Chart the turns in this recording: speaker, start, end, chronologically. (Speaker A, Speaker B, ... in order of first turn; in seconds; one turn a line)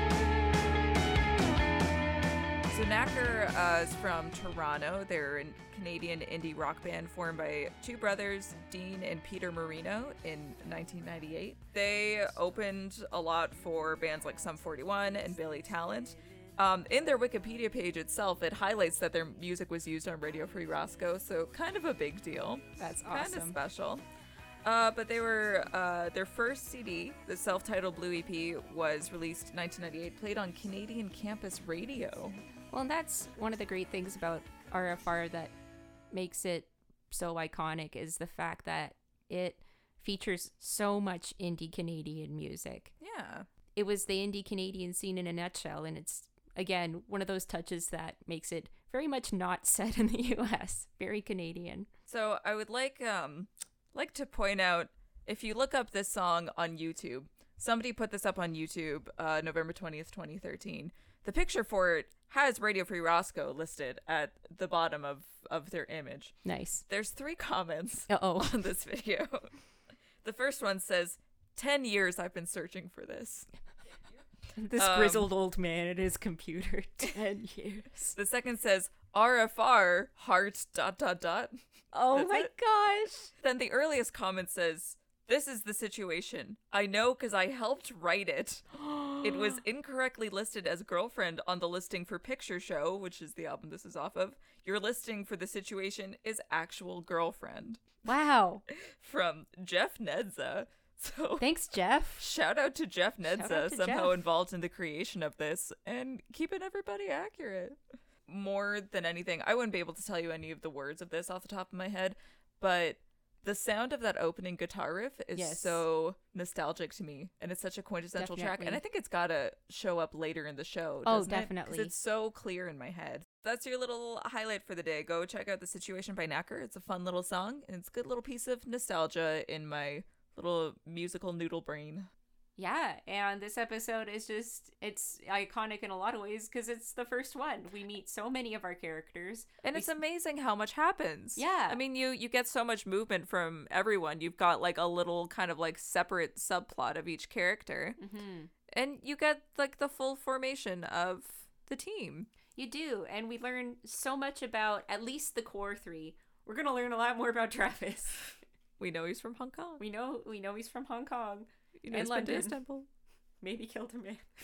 Speaker A: 2.7-24.0
Speaker B: 22.8-23.6
Speaker A: 24.6-32.4
Speaker B: 32.7-35.5
Speaker B: 36.1-42.9
Speaker A: 43.0-43.5
Speaker B: 43.7-51.9
Speaker A: 52.1-66.3
Speaker B: 66.4-66.8
Speaker A: 66.9-69.5
Speaker B: 68.1-68.5
Speaker A: 70.2-73.5
Speaker B: 74.6-78.1
Speaker A: 74.8-75.3
Speaker A: 78.1-81.6
Speaker B: 81.9-83.3
Speaker A: 82.1-82.5
Speaker A: 83.4-97.8
Speaker B: 98.0-98.6
Speaker A: 98.7-101.5
Speaker B: 101.4-102.2
Speaker A: 102.2-132.1
Speaker B: 103.2-104.2
Speaker B: 115.3-115.8
Speaker B: 118.2-118.8
Speaker B: 121.0-121.9
Speaker B: 132.6-139.9
Speaker A: 139.6-148.0
Speaker B: 141.3-141.8
Speaker B: 148.0-148.5
Speaker A: 148.7-152.3
Speaker B: 152.6-158.3
Speaker A: 158.8-159.8
Speaker B: 159.8-162.6
Speaker A: 161.8-162.9
Speaker B: 163.4-164.2